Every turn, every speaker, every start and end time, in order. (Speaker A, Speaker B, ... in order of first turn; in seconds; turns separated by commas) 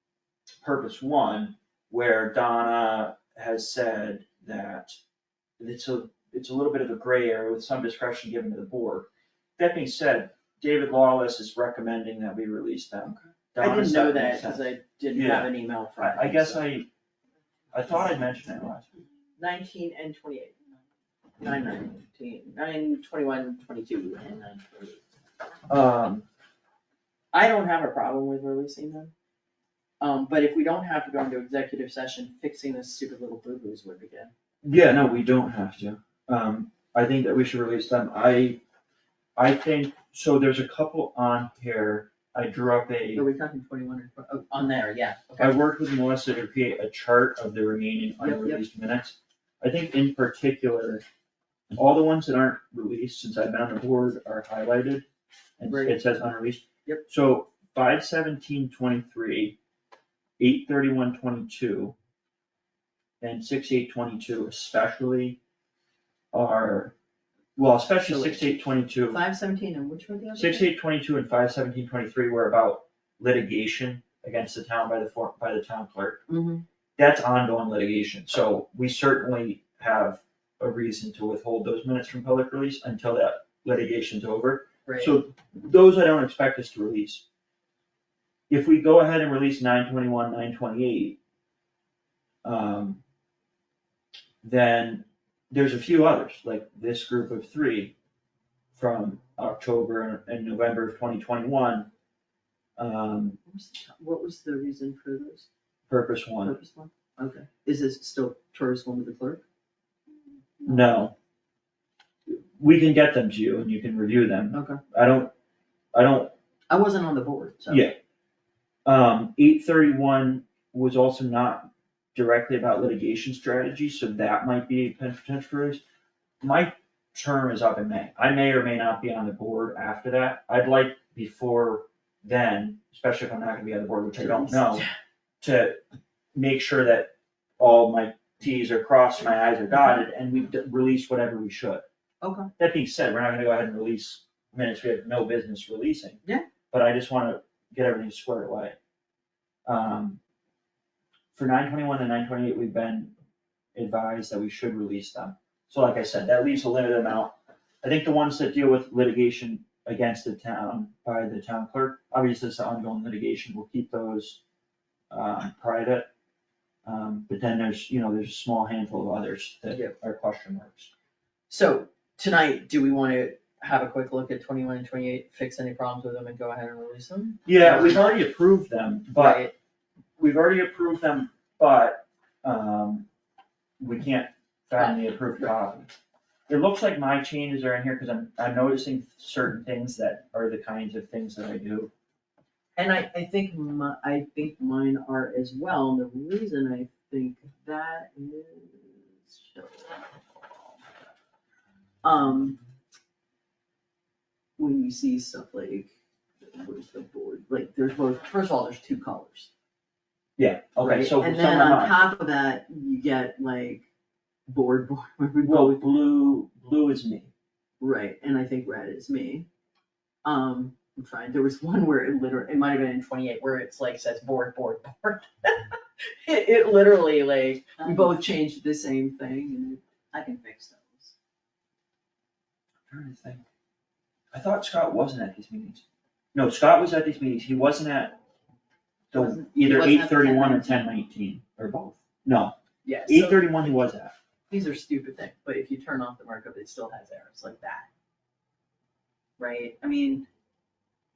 Speaker A: 0.6-5.0, Speaker A: 5.6-16.9, Speaker B: 13.6-16.6, Speaker A: 17.7-18.9, Speaker B: 19.4-20.6, Speaker B: 21.4-25.0, Speaker A: 25.7-26.2, Speaker B: 27.3-29.1, Speaker B: 30.0-34.3, Speaker A: 34.6-38.6, Speaker A: 39.4-43.2, Speaker B: 43.1-45.6, Speaker A: 45.4-51.0, Speaker B: 48.2-48.6, Speaker A: 51.7-55.0, Speaker A: 55.6-59.6, Speaker B: 55.7-56.0, Speaker A: 60.4-62.0, Speaker A: 63.2-65.4, Speaker A: 66.3-66.9, Speaker A: 67.5-69.2, Speaker B: 68.0-68.4, Speaker B: 69.1-70.7, Speaker A: 70.3-76.2, Speaker B: 76.3-76.6, Speaker A: 77.0-87.2, Speaker B: 84.8-85.2, Speaker A: 88.5-91.2, Speaker A: 92.4-93.0, Speaker A: 94.4-97.9, Speaker A: 98.7-101.9, Speaker A: 102.8-103.4, Speaker B: 103.4-105.5, Speaker A: 105.9-106.5, Speaker B: 106.4-109.4, Speaker A: 110.6-111.1, Speaker A: 112.3-115.3, Speaker B: 114.5-114.8, Speaker A: 115.9-116.3, Speaker B: 116.7-117.9, Speaker A: 117.7-118.0, Speaker A: 118.8-125.8, Speaker A: 126.4-134.8, Speaker B: 134.2-134.9, Speaker A: 135.4-135.8, Speaker A: 136.3-141.8, Speaker B: 142.2-142.5, Speaker A: 142.6-148.8, Speaker A: 149.7-150.2, Speaker A: 151.3-153.1, Speaker A: 153.7-164.4, Speaker A: 165.1-166.1, Speaker A: 166.8-170.9, Speaker B: 171.5-178.1, Speaker A: 177.4-179.5, Speaker B: 179.1-179.5, Speaker A: 180.2-183.1, Speaker A: 183.8-185.9, Speaker A: 186.5-191.9, Speaker B: 192.8-200.9, Speaker B: 202.0-202.6, Speaker B: 204.6-209.5, Speaker A: 210.4-211.9, Speaker B: 210.8-213.9, Speaker B: 214.5-216.0, Speaker A: 215.4-217.3, Speaker B: 217.8-219.5, Speaker B: 220.2-229.8, Speaker C: 227.8-228.1, Speaker C: 230.1-231.1, Speaker A: 232.9-233.4, Speaker A: 234.3-235.8, Speaker A: 236.3-238.2, Speaker A: 239.1-242.5, Speaker B: 239.2-240.2, Speaker C: 239.6-240.8, Speaker B: 242.8-243.8, Speaker A: 243.1-244.1, Speaker B: 244.5-247.9, Speaker B: 249.4-250.3